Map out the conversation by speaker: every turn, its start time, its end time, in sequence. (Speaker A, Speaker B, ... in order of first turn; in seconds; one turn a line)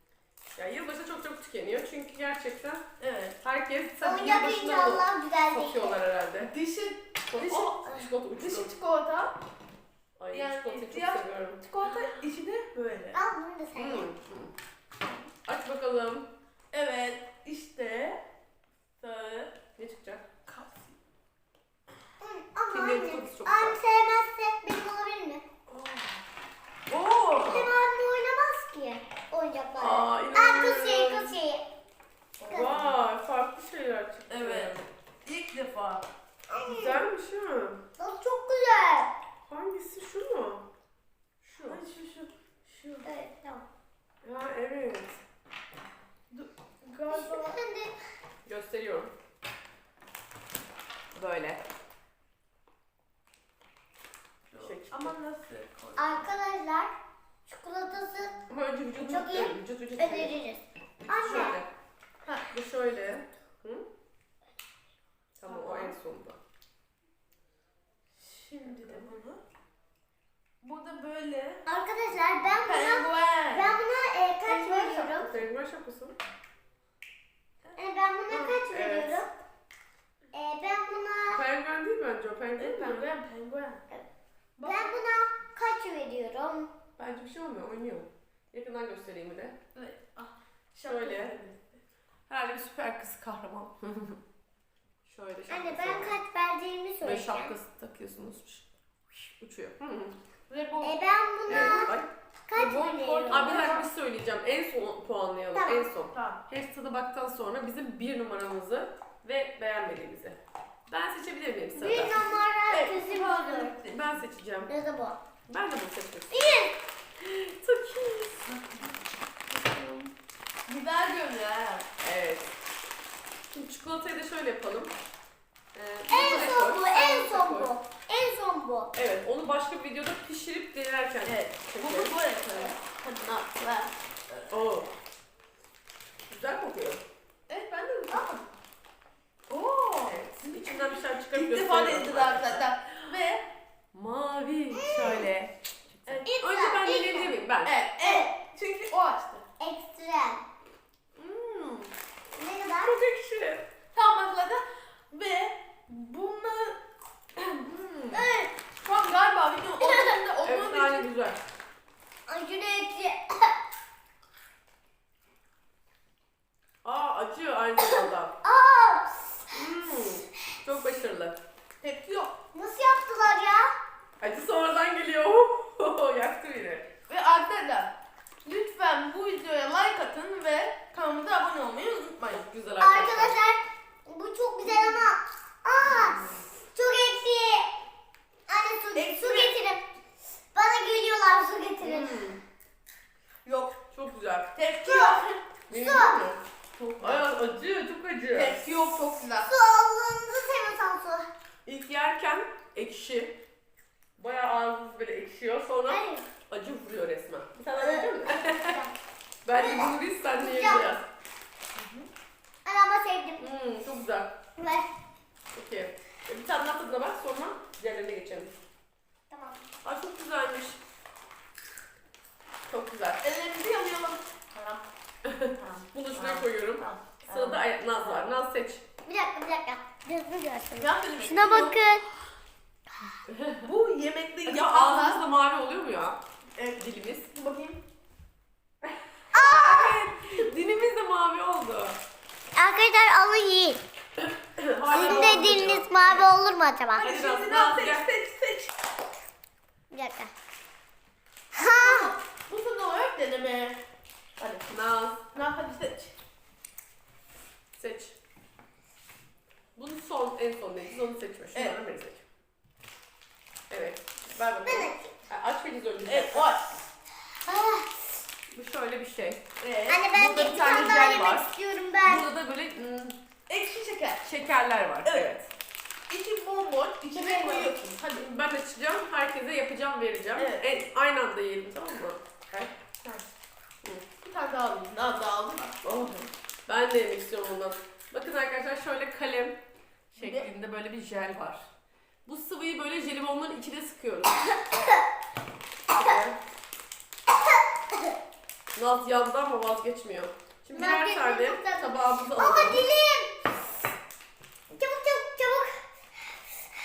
Speaker A: 0.6-2.8
Speaker B: 3.0-3.4
Speaker A: 3.4-6.5
Speaker C: 4.0-6.0
Speaker B: 6.4-7.8
Speaker A: 7.3-8.7
Speaker B: 8.4-9.3
Speaker A: 10.2-12.2
Speaker B: 10.3-13.2
Speaker C: 13.1-14.1
Speaker A: 13.7-14.5
Speaker A: 15.4-16.3
Speaker B: 16.7-18.2
Speaker B: 19.0-19.5
Speaker A: 19.8-20.2
Speaker B: 20.4-20.9
Speaker C: 22.2-25.4
Speaker A: 22.7-23.8
Speaker B: 25.7-26.1
Speaker A: 26.9-27.7
Speaker C: 27.4-31.6
Speaker A: 29.8-31.4
Speaker B: 32.4-32.9
Speaker A: 32.5-34.7
Speaker C: 32.5-32.8
Speaker B: 34.3-36.0
Speaker C: 36.5-37.0
Speaker A: 36.6-37.8
Speaker C: 38.0-39.1
Speaker A: 39.5-40.6
Speaker A: 41.4-41.8
Speaker B: 41.6-43.0
Speaker C: 43.0-43.6
Speaker A: 44.2-45.2
Speaker B: 46.3-47.5
Speaker C: 47.1-47.9
Speaker A: 48.5-49.1
Speaker A: 51.1-51.6
Speaker B: 54.5-56.3
Speaker A: 54.6-55.2
Speaker C: 56.0-56.9
Speaker C: 57.5-58.3
Speaker A: 58.5-60.3
Speaker C: 59.0-61.6
Speaker A: 61.2-61.7
Speaker B: 61.3-61.5
Speaker A: 62.5-63.9
Speaker A: 65.4-66.4
Speaker B: 65.5-66.0
Speaker B: 68.2-69.4
Speaker A: 68.7-69.1
Speaker B: 70.6-71.6
Speaker C: 71.7-75.3
Speaker B: 72.5-73.8
Speaker B: 74.5-75.3
Speaker A: 75.2-76.2
Speaker C: 77.8-79.3
Speaker A: 78.3-79.2
Speaker C: 80.3-81.4
Speaker A: 81.3-83.1
Speaker B: 82.6-83.8
Speaker B: 84.6-84.9
Speaker C: 84.6-86.7
Speaker A: 87.0-89.5
Speaker B: 89.7-91.6
Speaker A: 90.8-91.3
Speaker A: 92.3-94.2
Speaker A: 95.0-96.2
Speaker C: 95.5-97.5
Speaker A: 97.0-100.2
Speaker B: 100.5-101.9
Speaker C: 100.8-101.9
Speaker A: 101.5-112.3
Speaker C: 102.5-103.8
Speaker B: 103.3-103.8
Speaker C: 105.5-105.9
Speaker B: 106.1-106.4
Speaker C: 111.8-113.7
Speaker B: 112.7-114.2
Speaker A: 113.9-114.7
Speaker C: 114.7-115.2
Speaker A: 115.5-116.6
Speaker C: 116.3-116.7
Speaker A: 117.2-118.5
Speaker A: 119.5-120.1
Speaker B: 120.7-121.8
Speaker A: 122.0-122.5
Speaker A: 123.5-124.9
Speaker A: 125.7-127.7
Speaker C: 126.1-128.9
Speaker B: 126.1-126.6
Speaker A: 128.9-132.1
Speaker B: 131.2-134.6
Speaker A: 134.5-134.9
Speaker A: 136.3-137.0
Speaker B: 137.5-138.4
Speaker C: 138.1-138.4
Speaker B: 139.5-140.2
Speaker A: 140.1-143.1
Speaker B: 141.2-143.4
Speaker A: 143.9-145.6
Speaker C: 144.8-145.1
Speaker A: 146.1-147.7
Speaker C: 146.2-147.3
Speaker B: 147.6-149.4
Speaker C: 148.0-148.3
Speaker C: 149.6-150.4
Speaker A: 151.2-151.9
Speaker C: 152.4-152.9
Speaker A: 152.8-153.7
Speaker B: 153.9-156.8
Speaker A: 157.6-158.3
Speaker C: 158.1-158.5
Speaker B: 158.8-161.1
Speaker C: 159.8-160.2
Speaker A: 160.4-161.4
Speaker C: 162.3-163.5
Speaker A: 166.8-168.3
Speaker C: 167.8-169.2
Speaker A: 169.5-171.4
Speaker B: 171.8-172.3
Speaker C: 172.5-173.7
Speaker A: 174.2-176.9
Speaker B: 177.1-177.9
Speaker B: 178.4-182.4
Speaker A: 182.3-183.4
Speaker C: 182.8-186.2
Speaker A: 185.8-186.4
Speaker C: 186.7-187.7
Speaker C: 188.5-189.8
Speaker B: 188.9-189.6
Speaker C: 190.5-192.2
Speaker A: 191.8-192.4
Speaker B: 193.4-193.8
Speaker A: 193.9-194.5
Speaker B: 194.5-195.4
Speaker C: 194.8-196.2
Speaker A: 195.7-196.4
Speaker B: 196.8-197.2
Speaker A: 197.0-198.6
Speaker B: 198.3-199.5
Speaker C: 199.4-201.3
Speaker A: 201.7-203.4
Speaker A: 204.2-208.8
Speaker C: 205.9-206.2
Speaker C: 207.8-208.9
Speaker A: 209.4-211.1
Speaker C: 209.6-210.9
Speaker B: 211.7-212.1
Speaker C: 212.6-213.4
Speaker A: 213.4-214.3
Speaker C: 214.6-214.9
Speaker A: 215.5-218.5
Speaker C: 219.3-219.6
Speaker A: 219.8-220.8
Speaker A: 222.7-223.2
Speaker B: 223.2-224.8
Speaker A: 225.2-228.8
Speaker B: 225.5-227.6
Speaker C: 229.1-232.0
Speaker B: 230.8-231.8
Speaker A: 233.3-233.7
Speaker B: 233.6-235.2
Speaker A: 234.4-236.2
Speaker B: 236.6-237.8
Speaker A: 236.8-237.3
Speaker A: 238.8-242.0
Speaker C: 239.3-240.0
Speaker C: 242.6-243.8
Speaker A: 244.2-245.9
Speaker B: 244.9-245.7
Speaker C: 244.9-247.1
Speaker A: 247.0-248.1
Speaker B: 247.0-248.7
Speaker C: 249.9-250.3
Speaker C: 251.5-252.1
Speaker B: 251.8-253.8
Speaker B: 254.4-254.7
Speaker A: 254.7-255.3
Speaker B: 255.3-256.1
Speaker A: 257.8-258.1
Speaker A: 259.8-262.2
Speaker A: 263.7-266.5
Speaker C: 264.6-265.1
Speaker B: 266.0-266.6
Speaker C: 267.4-267.9
Speaker A: 268.5-269.4
Speaker B: 269.6-270.1
Speaker C: 269.9-272.2
Speaker A: 270.1-271.5
Speaker A: 272.0-273.2
Speaker B: 273.5-274.2
Speaker A: 274.2-275.5
Speaker B: 276.1-278.3
Speaker C: 277.1-277.7
Speaker A: 278.1-282.7
Speaker B: 280.4-280.6
Speaker B: 284.2-285.9
Speaker A: 285.8-289.6
Speaker A: 290.1-291.7
Speaker B: 290.2-290.5
Speaker A: 292.2-294.6
Speaker C: 294.4-295.1
Speaker A: 295.9-296.4
Speaker C: 297.4-298.1
Speaker A: 298.8-302.9
Speaker C: 300.7-303.3
Speaker C: 304.7-305.8